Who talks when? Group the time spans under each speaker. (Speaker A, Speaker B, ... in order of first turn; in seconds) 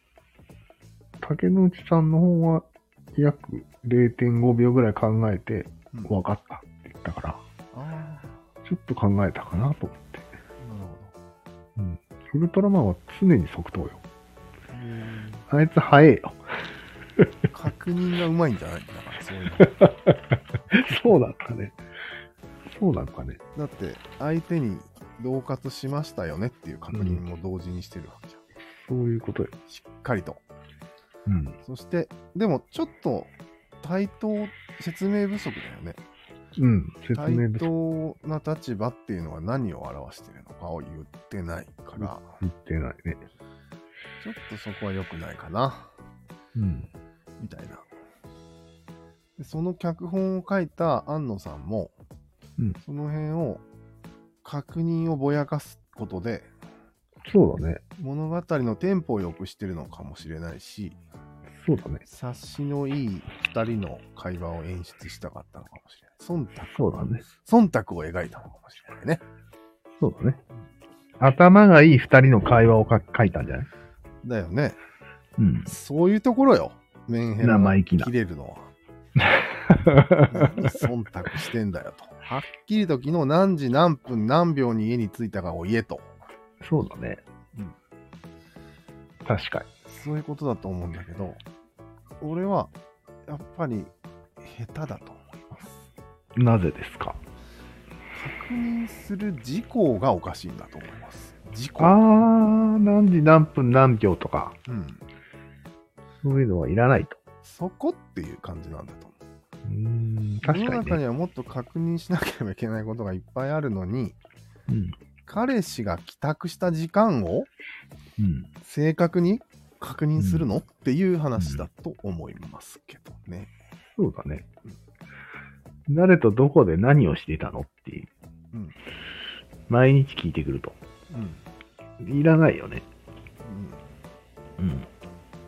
Speaker A: 1.2-7.4, 8.6-10.3, 11.8-14.0, 15.5-16.4, 19.6-20.1, 20.7-21.8, 22.7-23.4, 26.9-27.2, 28.8-29.5, 31.3-31.6, 36.6-37.7, 42.0-43.2, 46.5-46.9, 57.2-57.8, 61.6-62.0, 66.7-67.2, 70.0-70.4, 71.2-73.7, 75.4-75.7, 77.4-78.1, 79.2-80.5, 86.6-87.2, 89.2-89.7, 96.3-97.2, 101.8-104.6, 106.2-107.2, 109.7-111.0, 114.7-114.9, 118.2-118.5, 120.2-120.5, 121.4-121.7, 124.0-124.5, 125.9-128.1, 129.7-130.8, 132.0-132.8, 134.6-134.9
Speaker B: 7.7-8.4, 10.6-11.1, 14.7-15.4, 17.5-19.7, 23.5-28.4, 29.7-30.4, 31.6-36.0, 37.1-42.4, 44.2-45.9, 47.4-47.9, 49.4-51.9, 52.8-53.6, 54.4-56.5, 58.0-61.0, 62.0-69.2, 74.2-74.8, 75.6-78.7, 80.3-86.1, 89.9-91.4, 92.2-92.7, 93.3-95.9, 98.1-102.0, 104.7-105.0, 107.4-109.1, 110.4-114.2, 115.2-117.5, 118.6-123.5, 131.1-131.4, 133.4-133.8